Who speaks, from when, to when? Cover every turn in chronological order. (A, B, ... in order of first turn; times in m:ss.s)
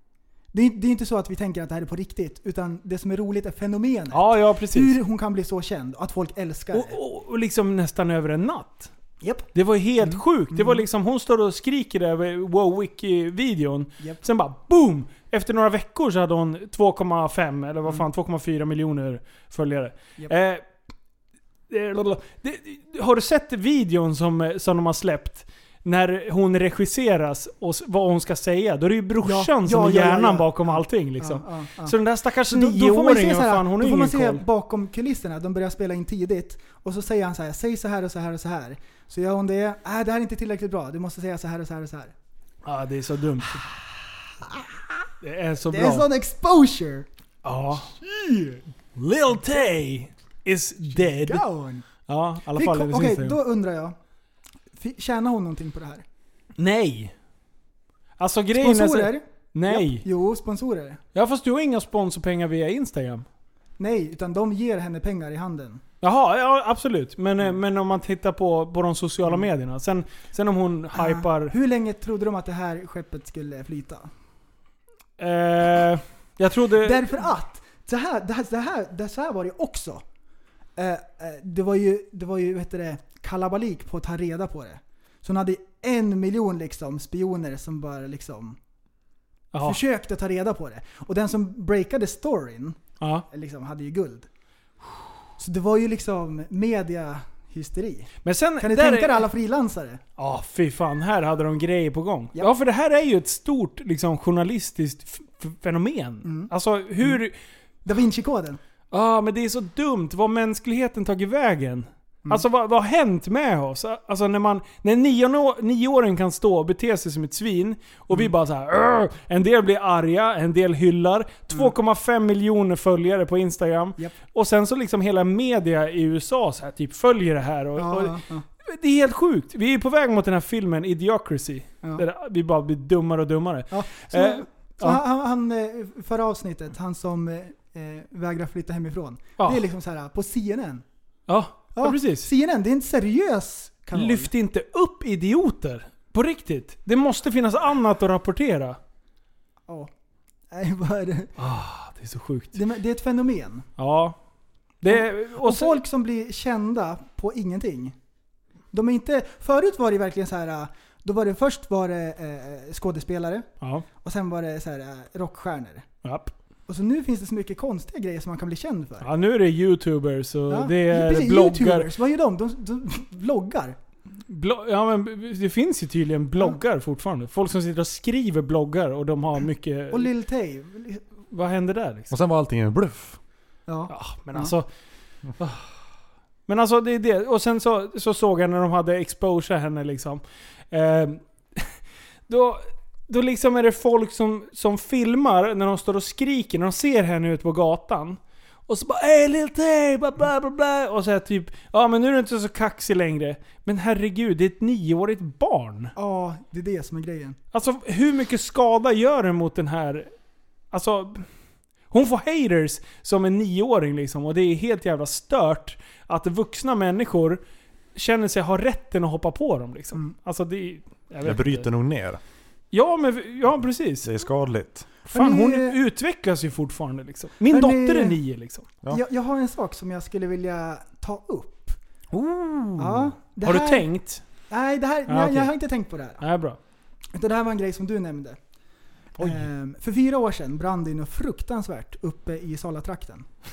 0:00.5-0:07.0 A
0:04.1-0:04.9 B
0:06.7-0:08.9 B
0:09.2-0:10.8 A
0:09.5-0:20.7 B
0:21.7-0:34.4 B
0:29.2-0:42.1 A
0:42.6-0:43.6 B
0:44.4-0:45.0 A
0:45.2-0:46.1 B
0:45.7-0:47.1 A
0:47.4-0:47.9 B
0:47.9-0:48.6 A
0:49.0-0:51.4 B
0:51.0-0:51.8 A
0:52.1-0:53.4 B
0:52.5-0:54.0 A
0:54.8-0:56.0 A
0:56.6-0:57.1 B
0:58.2-1:00.0 B
0:58.5-1:01.0 A
1:01.1-1:03.2 B
1:03.8-1:05.8 A
1:06.0-1:11.5 B
1:10.9-1:14.1 A
1:15.2-1:17.2 B
1:16.8-1:20.0 A
1:20.8-1:28.6 A
1:29.5-1:29.8 B
1:29.6-1:34.3 A
1:33.0-1:33.2 B
1:35.4-1:40.0 A
1:38.2-1:39.2 B
1:40.2-1:47.3 B
1:46.2-1:46.5 A
1:47.8-1:48.6 A
1:48.9-2:15.0 B
2:07.8-2:08.4 A
2:13.7-2:20.8 A
2:21.3-2:22.3 B
2:21.7-2:24.3 A
2:23.9-2:28.8 B
2:30.5-2:31.3 A
2:31.4-2:32.6 B
2:32.5-2:33.7 A
2:33.8-2:34.2 B
2:34.8-2:35.8 B
2:34.9-2:37.9 A
2:38.7-2:43.5 A
2:43.6-2:43.8 B
2:44.0-2:45.8 A
2:46.0-2:46.3 B
2:46.7-2:49.1 A
2:49.0-2:51.9 B
2:50.5-2:53.8 A
2:54.3-3:00.1 B
2:59.9-3:01.0 A
3:01.3-3:02.1 B
3:02.1-3:03.2 C
3:03.7-3:04.5 A
3:03.9-3:04.7 B
3:05.4-3:05.7 B
3:06.5-3:11.7 B
3:12.3-3:25.9 B
3:26.0-3:27.4 A
3:27.5-3:30.1 B
3:30.7-3:31.2 B
3:31.9-3:37.4 B
3:37.9-3:41.6 B
3:41.2-3:42.2 C
3:42.7-3:44.1 B
3:44.0-3:44.9 C
3:45.1-3:48.7 B
3:45.1-3:45.8 A
3:47.5-3:48.2 A
3:48.9-3:51.8 A
3:52.1-3:54.2 B
3:52.8-3:53.9 A
3:54.5-3:56.2 A
3:55.1-3:55.5 B
3:56.2-3:56.6 B
3:57.1-3:58.4 A
3:59.2-3:59.4 B
3:59.2-4:03.3 A